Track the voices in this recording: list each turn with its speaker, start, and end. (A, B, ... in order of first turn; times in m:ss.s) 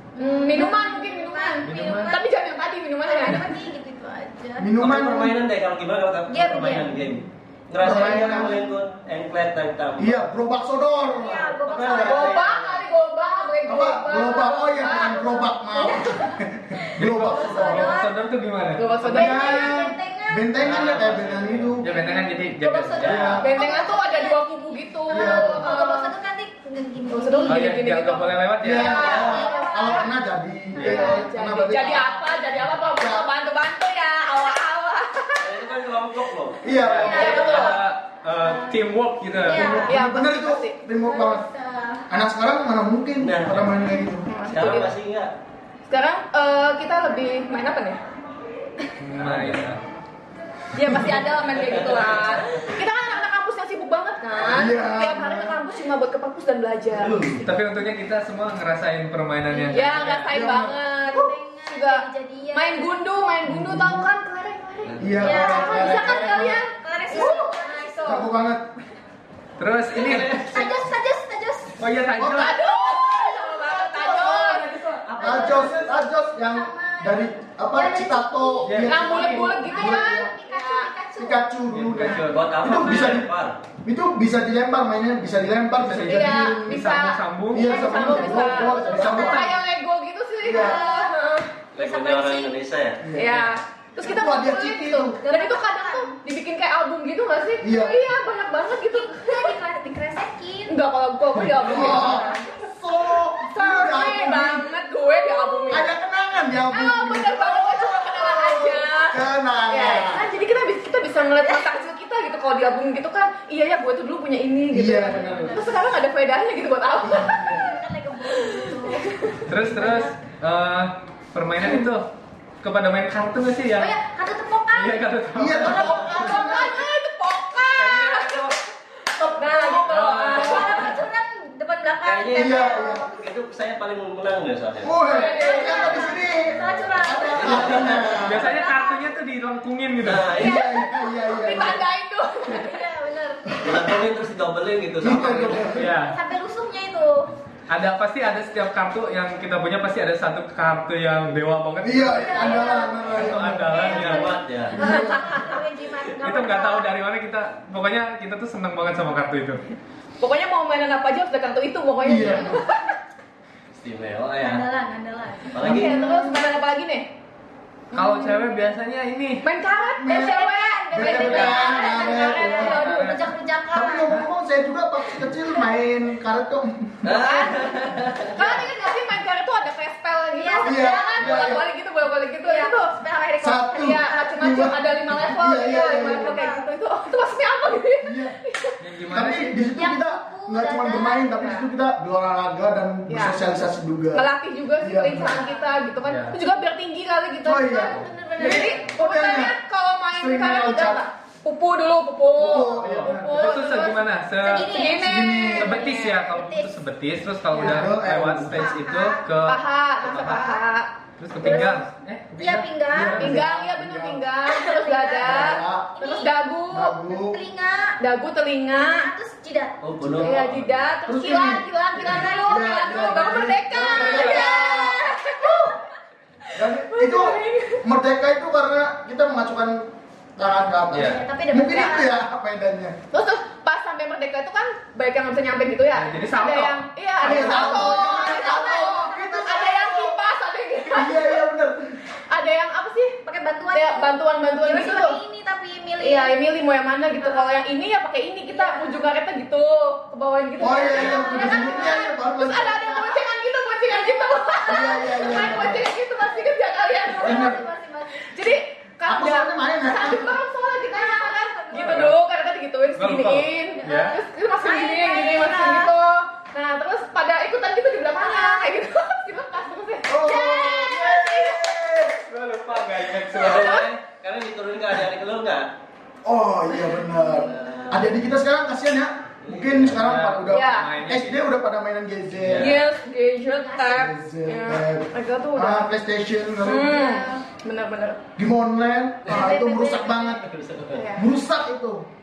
0:00.2-0:02.2 A
0:00.2-0:03.6 B
0:01.6-0:02.2 C
0:03.1-0:04.7 A
0:04.6-0:05.4 D
0:04.8-0:10.2 E
0:06.3-0:06.9 A
0:07.8-0:08.6 D
0:07.9-0:08.6 A
0:10.0-0:12.4 D
0:11.2-0:12.6 A
0:11.6-0:12.8 E
0:12.0-0:15.5 B
0:13.7-0:18.0 D
0:14.9-0:18.1 A
0:17.0-0:19.2 C
0:18.8-0:19.7 B
0:19.1-0:20.6 A
0:19.1-0:21.9 D
0:20.6-0:21.8 E
0:20.6-0:21.2 C
0:21.8-0:23.4 C
0:21.9-0:27.7 A
0:23.0-0:23.5 D
0:23.4-0:26.1 B
0:25.1-0:25.9 D
0:27.1-0:30.1 B
0:27.5-0:29.3 C
0:28.6-0:33.3 D
0:28.8-0:30.1 A
0:29.1-0:29.4 E
0:30.8-0:31.1 C
0:30.8-0:35.5 B
0:30.8-0:31.2 A
0:35.4-0:37.8 E
0:36.6-0:37.4 D
0:36.8-0:39.9 C
0:36.9-0:37.8 A
0:37.1-0:37.8 B
0:38.4-0:38.8 A
0:39.4-0:39.9 A
0:39.5-0:41.5 D
0:39.9-0:40.8 B
0:41.0-0:42.1 A
0:42.1-0:44.3 D
0:43.2-0:43.7 E
0:44.3-0:44.9 B
0:44.5-0:45.3 E
0:45.8-0:48.0 B
0:49.0-0:49.8 C
0:49.2-0:49.8 E
0:50.7-0:57.2 B
0:51.4-0:52.6 E
0:54.4-0:55.6 D
0:56.9-0:57.5 E
0:57.4-1:00.4 C
0:59.5-1:08.3 B
1:00.3-1:00.8 D
1:01.1-1:03.0 A
1:03.5-1:04.1 D
1:04.8-1:05.4 E
1:05.0-1:06.4 D
1:05.2-1:08.3 A
1:05.7-1:06.5 C
1:08.1-1:08.6 D
1:09.6-1:10.8 C
1:09.9-1:11.8 A
1:11.8-1:12.6 C
1:12.2-1:12.6 D
1:12.4-1:15.0 B
1:12.7-1:22.4 A
1:13.8-1:14.4 D
1:15.1-1:15.5 E
1:15.2-1:20.3 D
1:15.3-1:15.6 C
1:18.6-1:19.5 C
1:18.8-1:20.9 B
1:21.2-1:23.3 D
1:21.7-1:22.4 C
1:22.3-1:23.6 E
1:23.8-1:27.0 D
1:25.8-1:27.8 C
1:26.0-1:31.5 B
1:27.5-1:29.6 D
1:27.7-1:29.4 A
1:29.1-1:29.4 C
1:30.4-1:30.8 D
1:30.5-1:31.1 A
1:31.8-1:33.0 E
1:31.8-1:32.6 A
1:33.0-1:33.4 D
1:33.2-1:39.6 B
1:34.0-1:35.2 D
1:35.2-1:36.1 A
1:37.6-1:38.0 D
1:38.6-1:40.8 A
1:40.7-1:42.5 B
1:41.5-1:44.7 D
1:43.4-1:45.9 B
1:45.0-1:45.7 A
1:45.7-1:50.3 D
1:46.7-1:57.6 B
1:51.4-1:51.7 A
1:54.7-1:55.6 D
1:55.0-1:55.8 A
1:57.1-2:00.1 A
1:58.3-1:59.4 B
1:59.5-2:02.1 C
2:01.6-2:01.9 B
2:02.6-2:04.0 C
2:03.8-2:06.3 A
2:04.7-2:05.9 C
2:05.4-2:06.8 D
2:05.6-2:08.6 B
2:07.8-2:08.6 C
2:09.1-2:10.0 D
2:09.4-2:11.0 B
2:09.9-2:10.7 C
2:10.3-2:13.1 A
2:12.0-2:15.0 E
2:12.3-2:13.1 D
2:14.8-2:18.5 D
2:15.1-2:16.2 B
2:15.1-2:19.1 A
2:16.5-2:18.2 E
2:18.2-2:20.4 C
2:20.0-2:20.6 E
2:20.3-2:21.6 A
2:20.4-2:21.8 D
2:21.2-2:22.8 B
2:22.5-2:23.5 A
2:23.6-2:25.9 E
2:25.0-2:25.9 D
2:25.7-2:26.2 C
2:25.9-2:27.3 A
2:27.7-2:34.3 C
2:31.8-2:33.8 D
2:32.1-2:36.9 A
2:33.8-2:34.8 E
2:34.8-2:35.5 D
2:36.2-2:39.6 C
2:40.2-2:43.0 B
2:42.0-2:42.6 D
2:43.7-2:44.6 E
2:44.4-2:45.6 A
2:45.5-2:46.0 E
2:45.6-2:46.5 D
2:45.6-2:47.1 B
2:47.9-2:48.5 B
2:47.9-2:49.4 C
2:49.4-2:53.1 B
2:50.0-2:52.9 D
2:50.1-2:54.1 A
2:51.1-2:51.4 C
2:52.6-2:53.3 C
2:53.7-2:57.0 D
2:57.0-2:58.6 E
2:57.0-3:02.9 B
3:00.4-3:01.6 A
3:00.6-3:01.6 D
3:02.4-3:04.4 A
3:03.4-3:06.4 D
3:03.8-3:08.8 B
3:05.9-3:06.6 A
3:08.0-3:08.4 D
3:08.8-3:09.6 C
3:09.1-3:14.2 D
3:09.7-3:11.3 A
3:11.4-3:11.6 B
3:13.1-3:13.4 B
3:14.1-3:17.8 B
3:14.8-3:15.4 D
3:15.2-3:15.8 A
3:16.0-3:16.3 C
3:17.4-3:19.6 D
3:17.6-3:18.9 A
3:18.4-3:26.2 B
3:20.1-3:21.0 D
3:22.4-3:23.4 D
3:22.8-3:24.8 C
3:24.4-3:26.7 A
3:24.9-3:25.7 D
3:25.6-3:29.6 C
3:27.5-3:28.7 D
3:27.6-3:27.9 A
3:28.5-3:29.3 A
3:29.4-3:30.9 B
3:30.0-3:30.5 E
3:30.1-3:30.6 A
3:31.2-3:33.4 C
3:31.4-3:33.4 A
3:32.9-3:34.2 D
3:33.1-3:37.0 B
3:34.4-3:35.4 A
3:35.2-3:35.9 D
3:36.0-3:38.0 A
3:36.7-3:37.4 D
3:38.0-3:39.1 B
3:38.7-3:39.8 A
3:39.8-3:40.5 E
3:40.0-3:45.0 D
3:40.2-3:45.7 B
3:42.0-3:45.7 A
3:46.6-3:53.0 D
3:46.6-3:47.8 B
3:51.0-3:52.1 A
3:53.1-4:01.4 B
3:55.9-3:57.5 C
3:57.2-4:00.2 D
3:57.2-3:59.8 A
4:00.9-4:02.0 D
4:02.3-4:03.2 B
4:03.2-4:06.4 A
4:03.7-4:05.2 B
4:06.0-4:17.6 B
4:08.5-4:09.1 A
4:10.6-4:13.2 D
4:10.9-4:12.1 A
4:14.7-4:15.8 D
4:15.1-4:16.5 A
4:17.0-4:18.4 A
4:17.2-4:17.6 D
4:18.2-4:32.1 B
4:19.0-4:20.4 D
4:20.9-4:22.1 A
4:21.7-4:22.1 C
4:23.0-4:24.2 C
4:23.8-4:25.9 A
4:28.1-4:28.7 A
4:30.1-4:32.2 D
4:32.2-4:33.8 C
4:33.2-4:33.9 B
4:33.4-4:35.7 E
4:36.2-4:42.8 D
4:36.8-4:38.1 A
4:37.5-4:38.1 E
4:39.4-4:40.0 E
4:40.0-4:41.4 C
4:40.5-4:41.0 B
4:42.4-4:42.8 C
4:42.6-4:45.9 B
4:43.5-4:44.1 A
4:43.9-4:46.9 D
4:46.6-4:48.2 B
4:46.8-4:47.4 A
4:48.4-4:50.4 D
4:49.3-4:50.4 A
4:50.4-4:51.1 E
4:50.9-4:51.3 B
4:51.2-4:52.0 D